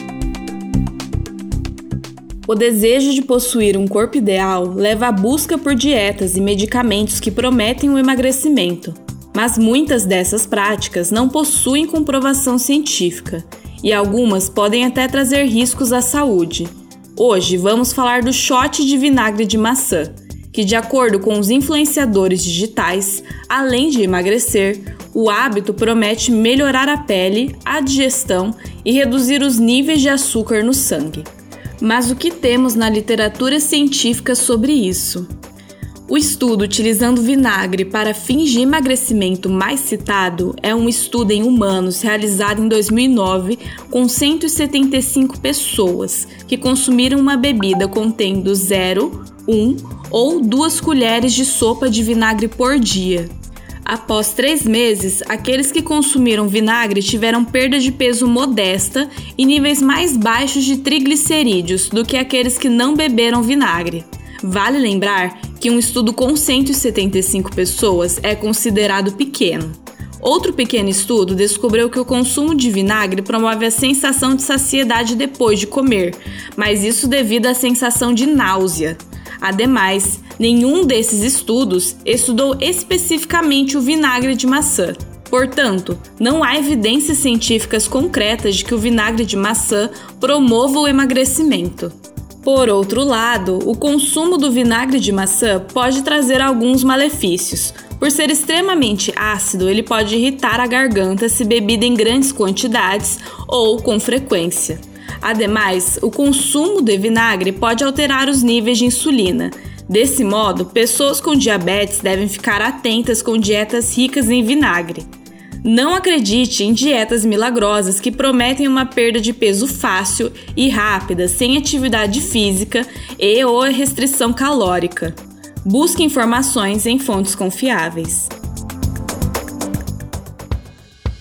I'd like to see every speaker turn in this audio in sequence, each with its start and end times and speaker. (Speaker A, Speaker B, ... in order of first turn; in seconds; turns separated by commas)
Speaker A: 2.5-31.3, Speaker A: 31.8-35.3, Speaker A: 36.1-53.3, Speaker A: 53.8-115.1, Speaker A: 115.6-128.3